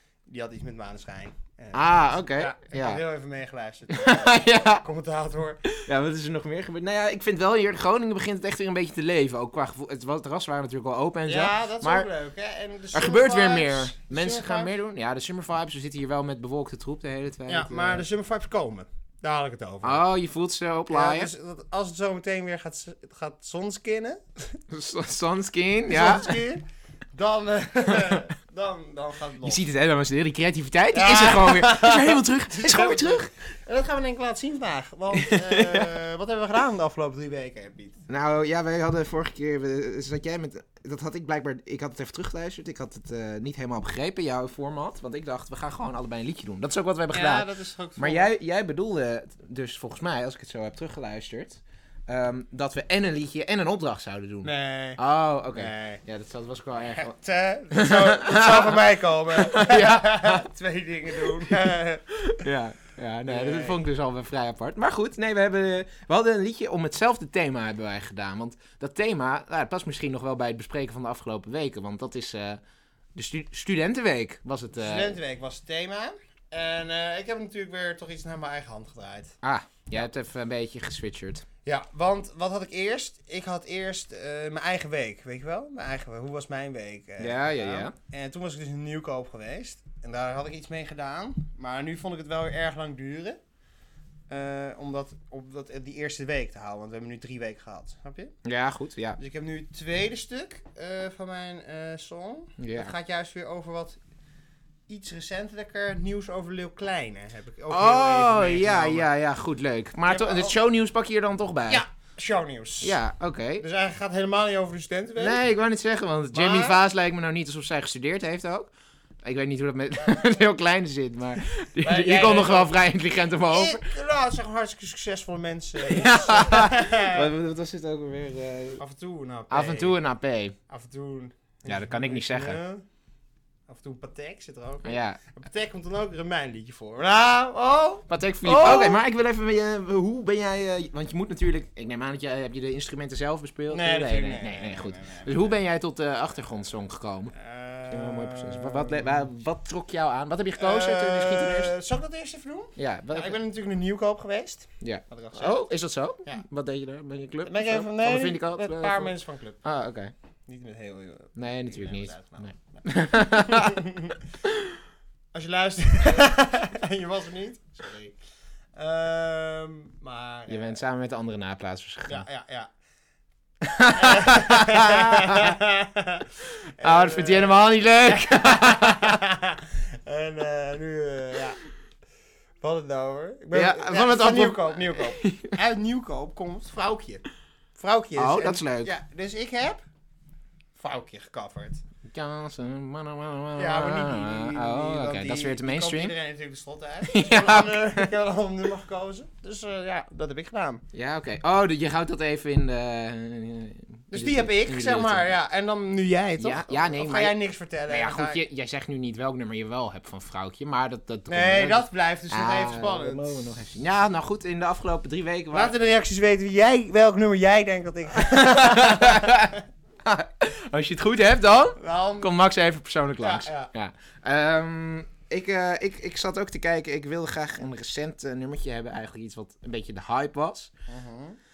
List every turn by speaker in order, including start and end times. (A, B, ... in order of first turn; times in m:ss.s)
0:00.3-0:05.7 A
0:01.7-0:03.0 B
0:03.9-0:04.8 B
0:05.8-0:12.1 B
0:11.2-0:14.7 A
0:12.9-0:18.0 B
0:17.5-0:20.0 A
0:19.8-0:21.3 B
0:20.9-0:24.6 A
0:24.7-0:26.4 B
0:25.9-0:29.6 A
0:27.9-0:28.2 B
0:29.4-0:33.3 B
0:30.9-0:38.0 A
0:35.1-0:35.9 B
0:38.1-0:47.5 B
0:47.1-0:48.3 A
0:48.0-0:57.1 B
0:54.4-0:55.0 A
0:55.5-0:56.0 A
0:56.9-1:02.0 A
0:57.7-1:00.4 B
1:01.1-1:12.6 B
1:03.2-1:03.8 A
1:13.1-1:15.2 B
1:14.8-1:19.3 A
1:19.4-1:21.4 B
1:21.6-1:33.4 A
1:27.2-1:27.9 B
1:34.3-1:38.3 A
1:38.4-1:39.2 B
1:39.2-1:44.0 A
1:42.6-1:42.9 B
1:44.9-1:49.1 A
1:47.7-1:51.8 B
1:50.1-1:50.5 A
1:51.7-1:53.0 A
1:52.8-1:53.6 B
1:53.6-1:55.4 A
1:55.2-1:58.7 B
1:56.3-1:56.8 A
1:59.2-2:03.8 B
2:01.8-2:02.7 A
2:03.5-2:07.3 A
2:05.8-2:08.8 B
2:08.8-2:09.9 A
2:09.5-2:10.6 B
2:10.7-2:12.8 A
2:11.7-2:12.6 B
2:13.7-2:19.0 A
2:14.8-2:15.2 B
2:18.1-2:27.3 B
2:23.7-2:25.6 A
2:27.3-2:29.2 A
2:27.9-2:31.7 B
2:30.6-2:35.6 A
2:32.8-2:33.4 B
2:34.8-2:39.1 B
2:37.4-2:39.6 A
2:39.6-2:40.1 B
2:40.5-2:44.2 A
2:41.4-2:43.8 B
2:44.4-2:44.7 B
2:45.3-2:48.2 A
2:48.7-2:50.8 A
2:50.5-2:52.2 B
2:52.1-2:52.7 A
2:53.6-2:55.6 B
2:53.8-3:01.6 A
2:56.8-2:59.2 B
3:02.6-3:07.2 A
3:03.5-3:05.5 B
3:07.8-3:09.8 A
3:08.2-3:08.9 B
3:10.8-3:11.8 A
3:12.1-3:16.1 B
3:13.6-3:20.8 A
3:17.1-3:18.1 B
3:20.9-3:25.3 B
3:24.1-3:28.4 A
3:26.4-3:27.4 B
3:27.9-3:35.7 B
3:31.3-3:33.4 A
3:35.5-3:39.6 A
3:38.2-3:50.7 B
3:41.8-3:42.3 A
3:43.2-3:43.7 A
3:50.9-3:51.4 A